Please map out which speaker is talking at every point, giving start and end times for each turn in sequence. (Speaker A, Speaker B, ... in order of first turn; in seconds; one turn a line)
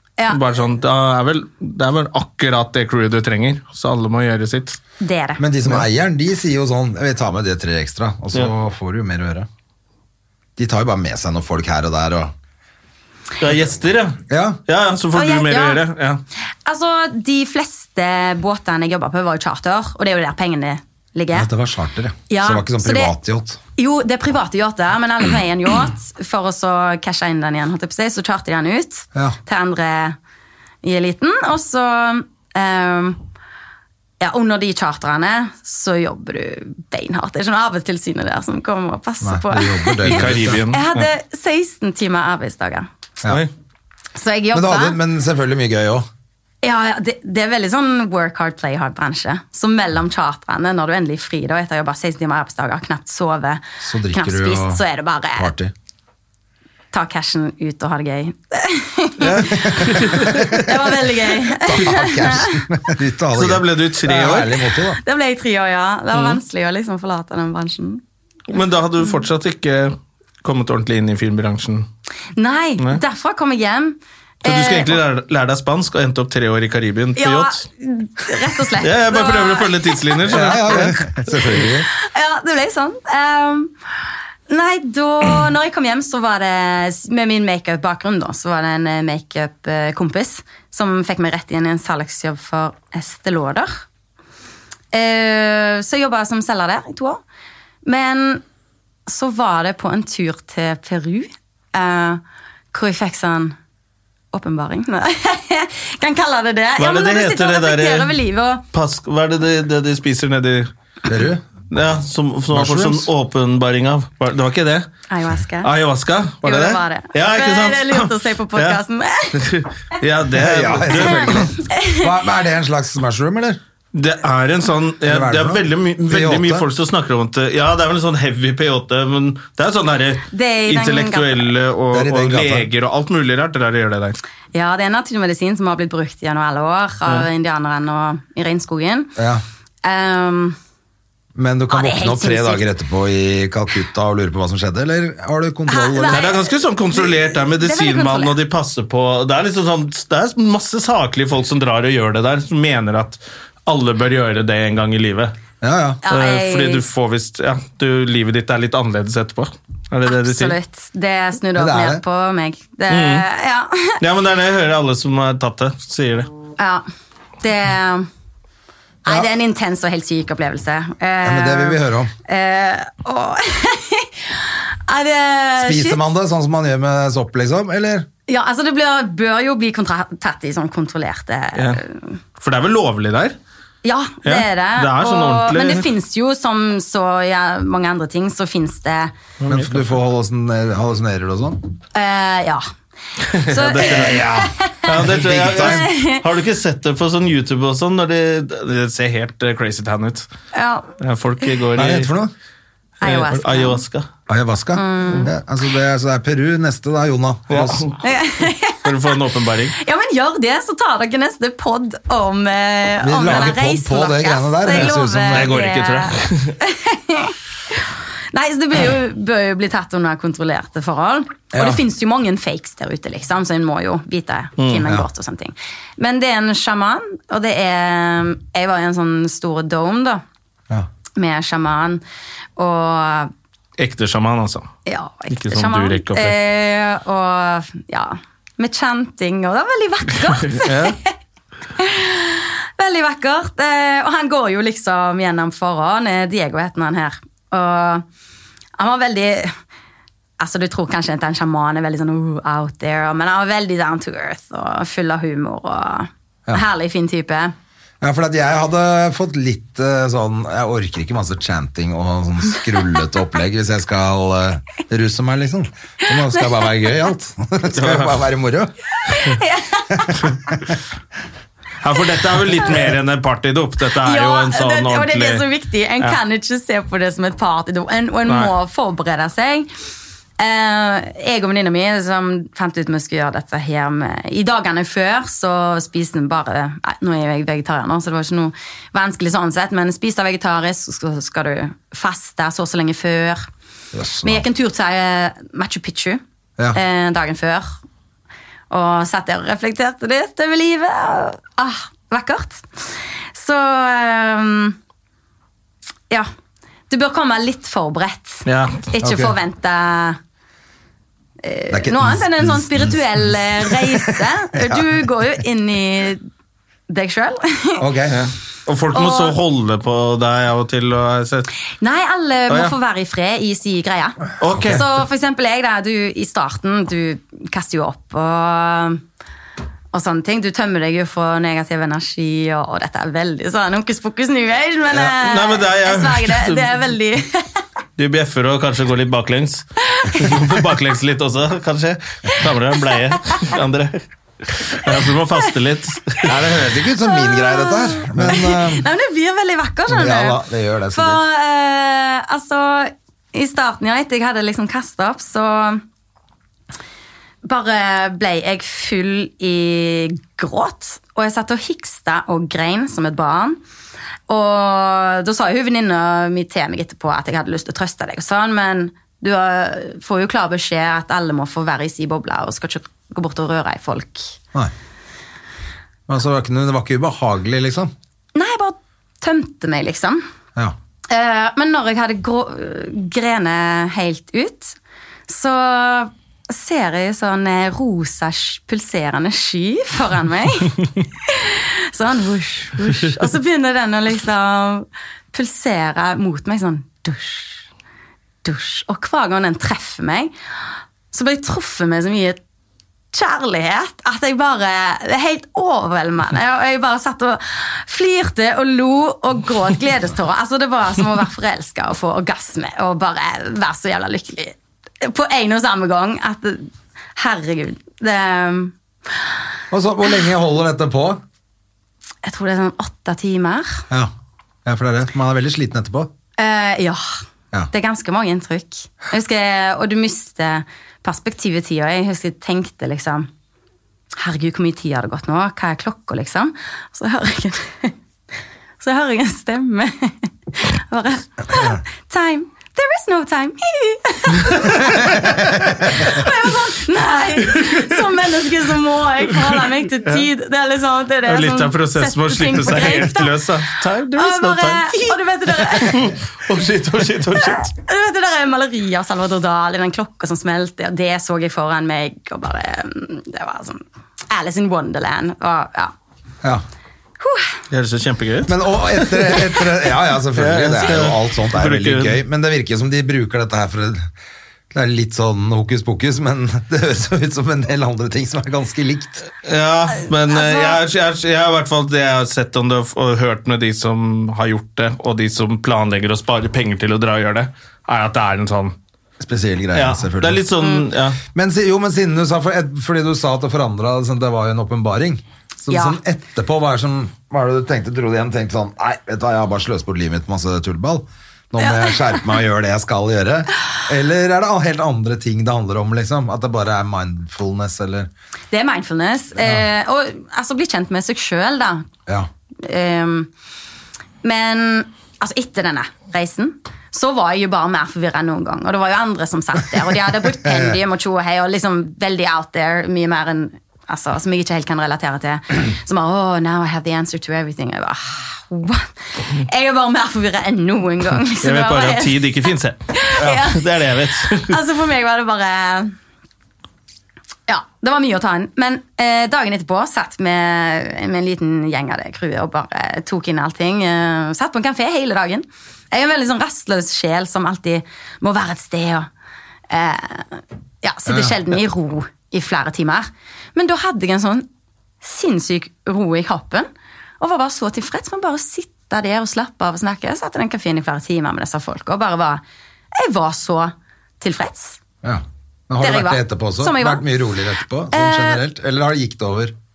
Speaker A: 0.3-4.8
Speaker B: 5.0-5.4
Speaker C: 5.4-9.5
Speaker C: 10.6-12.3
Speaker A: 13.4-16.2
Speaker C: 14.3-14.6
Speaker B: 15.1-15.8
Speaker B: 16.7-21.5
Speaker C: 21.3-23.6
Speaker B: 22.3-23.1
Speaker B: 23.8-30.2
Speaker B: 30.8-33.2
Speaker B: 34.2-42.9
Speaker C: 39.2-40.6
Speaker A: 40.0-41.1
Speaker B: 44.1-45.0
Speaker C: 44.5-46.1
Speaker B: 46.6-55.5
Speaker C: 53.8-54.8
Speaker C: 55.4-55.7
Speaker B: 56.9-62.6
Speaker A: 59.2-60.4
Speaker C: 59.4-65.0
Speaker A: 63.4-64.6
Speaker B: 65.0-68.0
Speaker A: 66.1-66.4
Speaker A: 68.5-71.9
Speaker B: 72.4-75.0
Speaker A: 74.4-77.7
Speaker B: 77.2-80.2
Speaker A: 78.8-81.0
Speaker C: 80.3-81.9
Speaker B: 81.9-83.7
Speaker B: 84.5-93.8
Speaker B: 94.9-97.2
Speaker B: 97.8-98.4
Speaker B: 99.1-102.2
Speaker B: 102.7-103.5
Speaker B: 104.3-108.6
Speaker A: 106.8-108.1
Speaker A: 108.7-110.7
Speaker C: 111.1-111.4
Speaker A: 111.7-114.9
Speaker C: 112.5-113.1
Speaker B: 115.1-115.7
Speaker A: 115.6-118.8
Speaker B: 116.4-119.4
Speaker A: 119.3-121.5
Speaker C: 120.3-123.6
Speaker B: 121.8-122.1
Speaker A: 123.9-134.2
Speaker C: 125.0-126.7
Speaker B: 130.3-131.5
Speaker C: 131.9-132.7
Speaker B: 134.5-139.2
Speaker C: 139.2-139.4
Speaker B: 139.8-140.6
Speaker C: 141.3-146.3
Speaker B: 141.7-142.6
Speaker B: 145.7-148.3
Speaker A: 146.1-155.3
Speaker C: 155.6-156.0
Speaker B: 156.0-156.9
Speaker A: 156.1-160.6
Speaker B: 160.1-164.0
Speaker C: 161.6-162.0
Speaker A: 162.9-163.2
Speaker A: 164.0-166.3
Speaker B: 166.6-166.8
Speaker B: 167.4-168.1
Speaker B: 169.1-176.0
Speaker C: 171.2-172.1
Speaker C: 175.6-178.1
Speaker B: 178.3-182.2
Speaker A: 181.6-181.8
Speaker A: 182.4-183.4
Speaker B: 183.8-189.1
Speaker A: 184.2-185.9
Speaker A: 189.4-190.0
Speaker C: 189.5-191.7
Speaker B: 191.9-192.6
Speaker A: 193.2-200.3
Speaker B: 193.5-194.9
Speaker C: 193.8-195.9
Speaker B: 195.6-196.2
Speaker B: 200.5-200.9
Speaker A: 201.0-202.1
Speaker C: 201.8-202.3
Speaker B: 203.0-203.8
Speaker A: 203.0-204.1
Speaker C: 204.3-207.8
Speaker B: 204.8-205.3
Speaker A: 207.5-208.0
Speaker B: 208.0-209.1
Speaker A: 208.8-209.8
Speaker B: 209.8-230.2
Speaker C: 213.0-215.6
Speaker A: 214.7-216.6
Speaker C: 221.5-221.8
Speaker A: 224.6-224.8
Speaker B: 231.2-232.0
Speaker B: 232.6-233.3
Speaker A: 233.8-234.7
Speaker B: 234.9-241.1
Speaker A: 235.3-236.4
Speaker A: 240.2-241.0
Speaker B: 241.8-248.1
Speaker B: 248.8-249.6
Speaker B: 250.4-257.6
Speaker C: 258.0-268.7
Speaker B: 266.1-266.7
Speaker A: 267.8-268.2
Speaker B: 269.1-270.1
Speaker C: 269.9-270.1
Speaker A: 271.8-275.5
Speaker B: 274.0-279.7
Speaker B: 280.4-293.5
Speaker C: 293.9-294.5
Speaker B: 294.2-296.2
Speaker B: 296.7-297.7
Speaker B: 298.7-304.8
Speaker B: 306.9-310.2
Speaker A: 308.4-308.9
Speaker C: 309.0-309.4
Speaker B: 311.4-316.2
Speaker C: 311.7-314.9
Speaker B: 316.9-317.9
Speaker C: 317.8-318.2
Speaker A: 318.1-321.5
Speaker B: 318.9-319.4
Speaker B: 321.8-329.0
Speaker A: 322.5-322.8
Speaker A: 324.4-324.9
Speaker C: 324.5-324.8
Speaker B: 329.9-337.6
Speaker A: 334.9-336.7
Speaker A: 338.0-346.3
Speaker B: 339.9-340.3
Speaker C: 346.3-348.9
Speaker B: 347.0-350.4
Speaker C: 349.9-351.2
Speaker B: 350.9-355.8
Speaker B: 357.4-363.6
Speaker B: 364.3-374.4
Speaker C: 376.1-377.9
Speaker B: 378.4-380.2
Speaker B: 381.1-384.8
Speaker B: 385.3-397.6
Speaker B: 398.4-400.3
Speaker B: 401.1-402.4
Speaker B: 403.1-418.7
Speaker C: 419.7-421.2
Speaker B: 422.2-423.9
Speaker C: 424.6-426.1
Speaker B: 426.4-427.2
Speaker B: 427.7-433.3
Speaker B: 434.2-437.9
Speaker B: 438.8-456.1
Speaker A: 444.4-444.7
Speaker C: 445.0-445.9
Speaker A: 447.4-448.0
Speaker A: 449.6-450.3
Speaker A: 451.3-457.7
Speaker B: 457.4-465.9
Speaker B: 467.2-467.6
Speaker A: 467.7-469.6
Speaker C: 468.5-474.1
Speaker A: 470.4-472.2
Speaker C: 474.7-479.2
Speaker A: 479.4-488.8
Speaker B: 480.3-480.8
Speaker C: 489.2-490.4
Speaker A: 489.8-491.2
Speaker C: 491.3-508.1
Speaker B: 495.7-496.0
Speaker B: 501.6-502.2
Speaker B: 508.5-511.9
Speaker C: 509.4-509.6
Speaker B: 512.6-513.3
Speaker B: 514.2-532.3
Speaker C: 520.4-520.8
Speaker A: 531.4-534.5
Speaker B: 532.9-535.9
Speaker B: 537.5-549.1
Speaker B: 549.7-554.5
Speaker C: 551.1-551.4
Speaker B: 555.0-556.7
Speaker B: 557.2-562.4
Speaker B: 562.9-564.8
Speaker C: 565.0-569.5
Speaker B: 565.8-567.1
Speaker B: 567.9-568.4